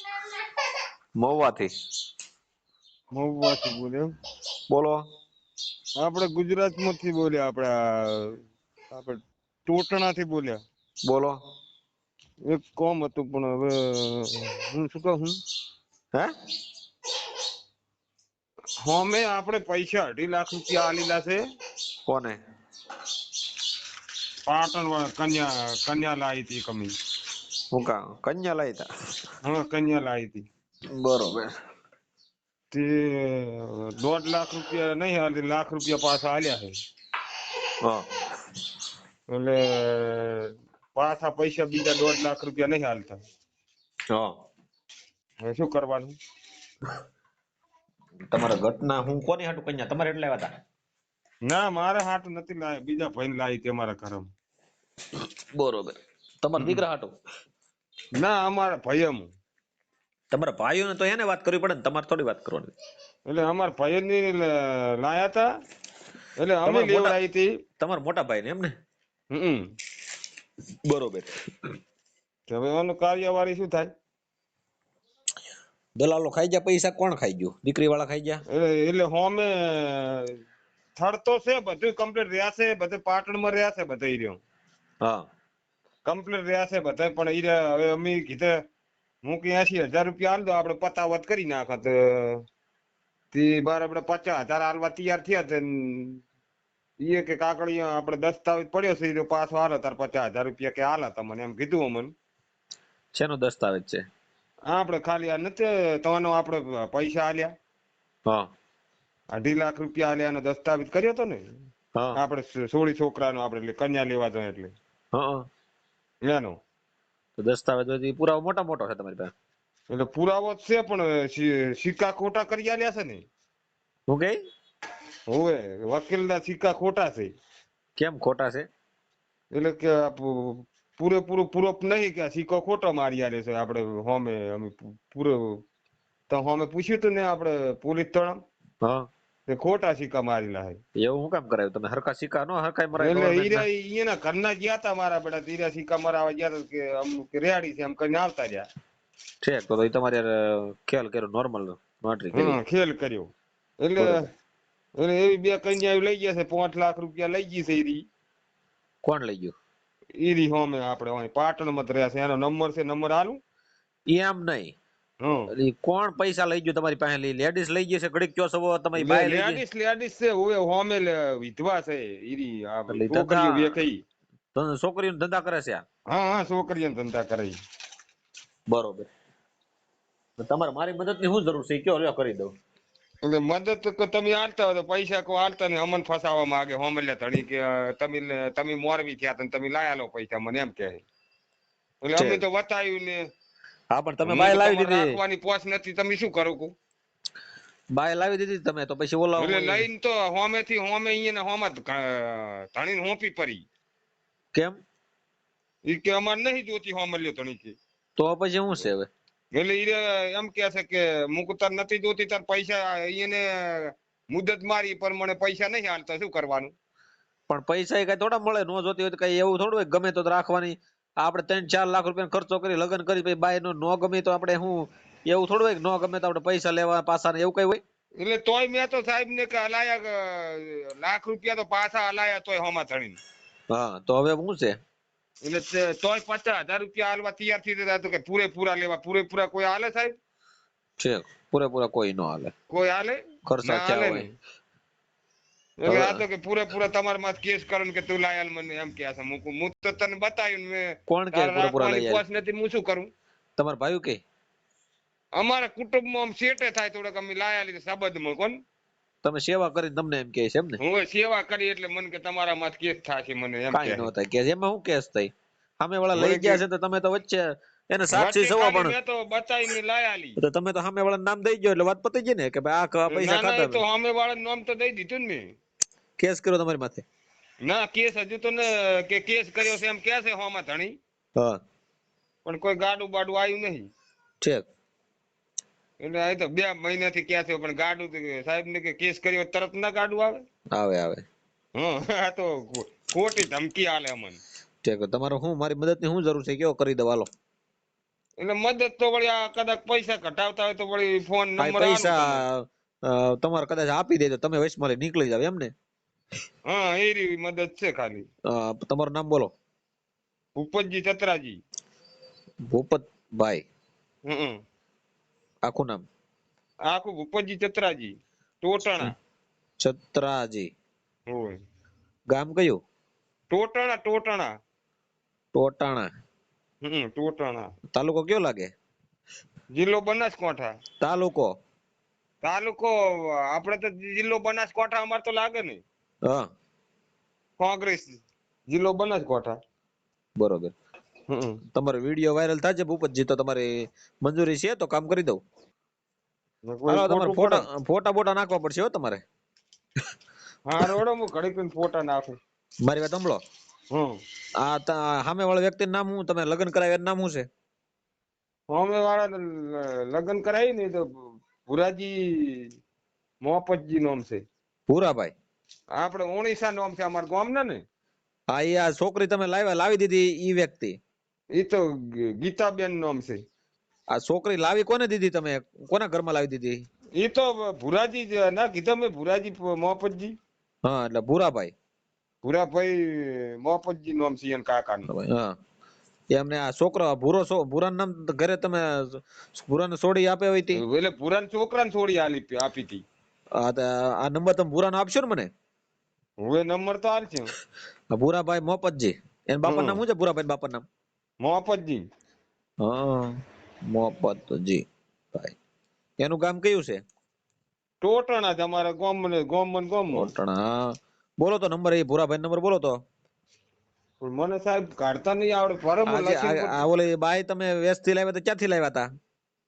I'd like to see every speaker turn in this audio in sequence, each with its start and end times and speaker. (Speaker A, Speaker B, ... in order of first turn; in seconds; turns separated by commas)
Speaker A: 1.2-1.7, Speaker B: 3.1-4.1, Speaker A: 4.7-5.1, Speaker B: 6.0-8.4, Speaker B: 8.9-10.6, Speaker A: 11.1-11.4, Speaker B: 12.5-15.4, Speaker B: 18.8-21.4, Speaker A: 22.1-22.4, Speaker B: 24.5-26.9, Speaker A: 27.7-28.9, Speaker B: 29.4-30.4, Speaker A: 30.9-31.6, Speaker B: 32.7-36.8, Speaker A: 37.8-38.3, Speaker B: 39.3-43.2, Speaker A: 44.1-44.4, Speaker B: 45.4-46.1, Speaker A: 48.3-50.5, Speaker B: 51.5-54.3, Speaker A: 55.2-57.1, Speaker B: 56.6-56.8, Speaker B: 58.2-59.3, Speaker A: 60.3-62.7, Speaker B: 63.3-65.5, Speaker B: 66.4-67.5, Speaker A: 66.7-67.2, Speaker A: 67.8-68.8, Speaker B: 69.3-69.7, Speaker A: 70.8-71.7, Speaker B: 72.5-73.9, Speaker A: 76.0-78.4, Speaker B: 78.5-80.4, Speaker B: 81.0-84.4, Speaker A: 85.0-85.3, Speaker B: 86.1-88.6, Speaker B: 89.2-92.4, Speaker B: 93.3-96.2, Speaker B: 97.0-102.1, Speaker A: 103.2-104.1, Speaker B: 104.7-107.5, Speaker A: 108.3-108.5, Speaker B: 109.3-111.5, Speaker B: 112.2-114.7, Speaker A: 115.1-115.5, Speaker B: 116.2-116.6, Speaker A: 117.4-119.3, Speaker B: 119.9-123.2, Speaker A: 124.1-124.5, Speaker B: 125.3-127.3, Speaker A: 128.0-128.7, Speaker B: 129.5-135.6, Speaker B: 136.3-138.4, Speaker A: 138.8-139.1, Speaker B: 139.5-140.8, Speaker A: 141.0-143.7, Speaker B: 143.0-148.7, Speaker A: 149.4-152.6, Speaker B: 152.3-154.3, Speaker A: 154.0-154.3, Speaker B: 155.0-158.0, Speaker A: 159.0-159.5, Speaker B: 160.2-163.4, Speaker A: 164.1-164.8, Speaker B: 165.2-165.5, Speaker A: 165.5-169.6, Speaker B: 169.0-174.0, Speaker A: 172.9-173.8, Speaker A: 174.5-175.8, Speaker B: 176.1-177.6, Speaker A: 178.7-179.1, Speaker A: 180.4-182.5, Speaker B: 183.2-191.0, Speaker B: 192.0-193.2, Speaker A: 192.2-192.4, Speaker A: 193.9-195.2, Speaker B: 194.3-196.7, Speaker A: 197.9-199.9, Speaker B: 199.4-203.6, Speaker A: 204.5-204.8, Speaker B: 205.9-207.8, Speaker A: 208.2-209.1, Speaker B: 209.5-216.7, Speaker A: 217.5-227.8, Speaker B: 228.2-233.2, Speaker A: 233.7-234.8, Speaker B: 235.4-240.1, Speaker A: 241.0-242.5, Speaker B: 242.7-244.3, Speaker A: 243.5-244.3, Speaker B: 245.8-253.1, Speaker A: 245.9-246.2, Speaker A: 251.1-252.2, Speaker A: 253.6-254.2, Speaker B: 255.4-258.6, Speaker A: 259.2-260.8, Speaker B: 260.8-264.1, Speaker A: 263.7-268.9, Speaker B: 266.1-266.6, Speaker B: 268.1-270.4, Speaker A: 270.4-273.8, Speaker B: 273.1-275.5, Speaker A: 276.2-277.1, Speaker B: 277.6-281.0, Speaker A: 281.4-281.6, Speaker B: 282.4-283.9, Speaker A: 284.4-284.7, Speaker B: 286.0-290.4, Speaker A: 290.7-291.2, Speaker B: 291.8-294.4, Speaker A: 294.8-297.3, Speaker B: 298.4-302.4, Speaker A: 301.6-305.7, Speaker B: 306.7-308.3, Speaker A: 308.5-309.5, Speaker B: 310.6-311.6, Speaker A: 312.7-313.6, Speaker B: 314.3-314.6, Speaker A: 315.6-316.1, Speaker B: 316.9-319.1, Speaker A: 319.8-320.7, Speaker B: 321.3-321.6, Speaker A: 322.3-322.8, Speaker B: 323.5-324.5, Speaker A: 325.6-326.1, Speaker B: 326.8-327.7, Speaker A: 327.9-328.7, Speaker B: 329.7-330.7, Speaker A: 331.0-331.5, Speaker B: 332.4-335.8, Speaker A: 336.2-336.5, Speaker B: 337.6-339.6, Speaker A: 340.4-340.7, Speaker B: 341.3-341.6, Speaker A: 341.7-343.7, Speaker A: 344.2-345.4, Speaker B: 346.7-347.6, Speaker A: 346.9-349.2, Speaker B: 350.7-352.4, Speaker A: 352.8-353.4, Speaker B: 353.9-354.2, Speaker A: 354.6-357.5, Speaker B: 358.7-362.7, Speaker B: 363.4-364.4, Speaker A: 364.9-365.4, Speaker B: 366.0-367.8, Speaker A: 368.5-371.0, Speaker B: 371.5-373.4, Speaker A: 374.1-376.9, Speaker B: 377.2-380.4, Speaker A: 380.8-381.7, Speaker B: 382.4-385.1, Speaker A: 385.1-385.6, Speaker A: 386.3-390.8, Speaker B: 390.8-393.0, Speaker A: 393.5-395.5, Speaker B: 396.4-397.5, Speaker A: 398.1-400.9, Speaker B: 399.7-400.0, Speaker B: 401.4-402.0, Speaker A: 402.8-405.6, Speaker A: 406.2-407.0, Speaker B: 408.0-410.3, Speaker A: 410.1-413.0, Speaker B: 414.2-416.8, Speaker A: 416.1-419.1